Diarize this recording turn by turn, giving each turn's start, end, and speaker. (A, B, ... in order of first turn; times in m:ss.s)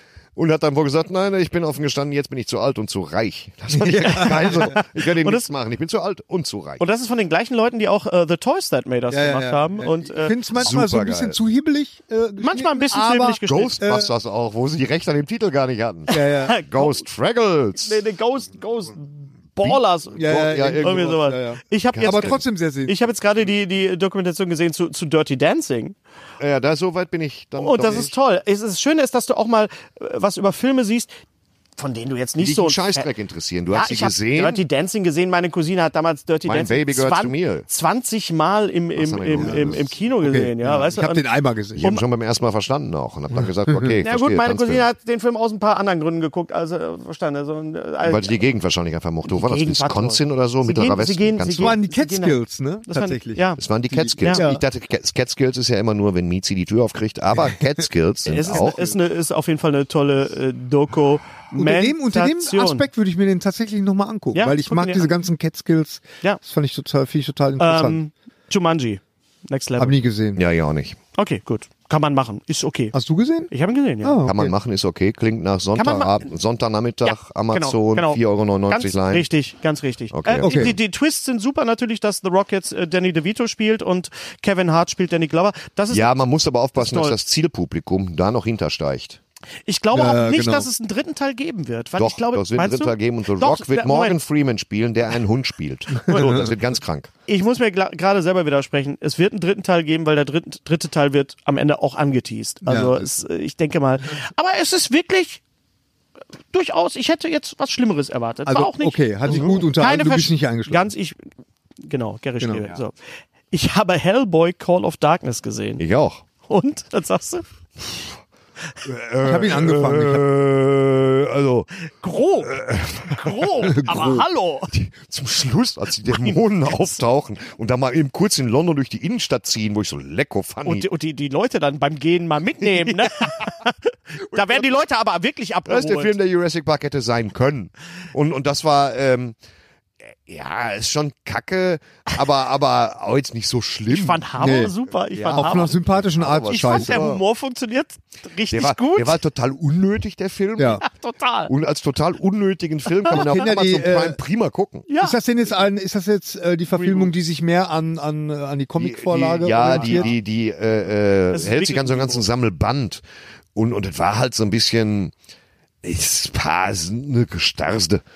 0:00.4-0:06.8 A
0:03.8-0:04.8 B
0:04.0-0:05.5 C
0:06.8-0:10.6 C
0:09.1-0:14.1 B
0:10.6-0:11.4 A
0:12.4-0:13.8 C
0:13.4-0:18.0 A
0:16.1-0:17.0 C
0:16.1-0:16.6 B
0:17.8-0:26.0 C
0:19.6-0:21.2 A
0:20.2-0:23.0 B
0:21.9-0:22.4 A
0:26.4-0:28.1 A
0:27.6-0:31.1 C
0:31.8-0:33.1 C
0:32.4-0:34.6 A
0:33.7-0:41.3 C
0:36.5-0:37.7 A
0:39.0-0:40.0 A
0:39.4-0:41.8 B
0:41.8-0:44.9 A
0:41.8-0:42.0 C
0:44.0-0:48.4 C
0:48.0-0:51.8 A
0:49.3-0:53.6 C
0:51.6-0:54.6 B
0:53.6-0:58.9 A
0:54.2-0:54.5 C
0:58.3-1:02.9 C
0:58.4-0:59.0 B
1:01.6-1:08.0 B
1:04.3-1:05.1 C
1:07.6-1:10.0 C
1:09.8-1:10.4 B
1:10.4-1:11.0 A
1:11.2-1:13.0 C
1:12.9-1:13.5 B
1:13.5-1:14.2 C
1:14.0-1:14.6 B
1:14.3-1:19.3 A
1:15.8-1:16.3 C
1:17.0-1:26.1 C
1:20.1-1:20.8 A
1:20.4-1:20.8 B
1:25.9-1:29.2 A
1:26.8-1:27.2 C
1:29.7-1:34.2 C
1:29.9-1:30.7 B
1:32.0-1:37.1 A
1:36.1-1:36.5 C
1:36.1-1:36.5 B
1:37.3-1:45.4 C
1:42.6-1:43.0 B
1:46.5-1:51.2 C
1:48.5-1:50.9 B
1:51.8-1:53.0 C
1:53.5-1:55.8 C
1:55.8-1:56.2 A
1:56.4-1:57.4 C
1:57.8-1:58.1 A
1:58.8-2:01.7 A
1:59.2-2:00.2 B
2:02.0-2:04.7 C
2:02.4-2:10.9 A
2:03.7-2:04.2 B
2:06.1-2:07.0 C
2:10.6-2:16.1 C
2:12.9-2:13.3 A
2:14.4-2:14.6 A
2:15.7-2:19.4 A
2:20.3-2:24.3 A
2:23.9-2:25.8 C
2:24.4-2:24.7 B
2:25.1-2:27.2 A
2:25.3-2:27.0 B
2:26.5-2:29.2 C
2:28.5-2:30.8 A
2:30.6-2:30.8 B
2:30.8-2:31.5 C
2:31.5-2:34.9 A
2:33.1-2:34.2 B
2:34.9-2:35.2 C
2:35.0-2:40.1 B
2:36.8-2:37.1 C
2:38.8-2:43.0 A
2:39.7-2:40.1 C
2:41.3-2:42.3 C
2:43.6-2:45.1 A
2:45.8-2:48.0 A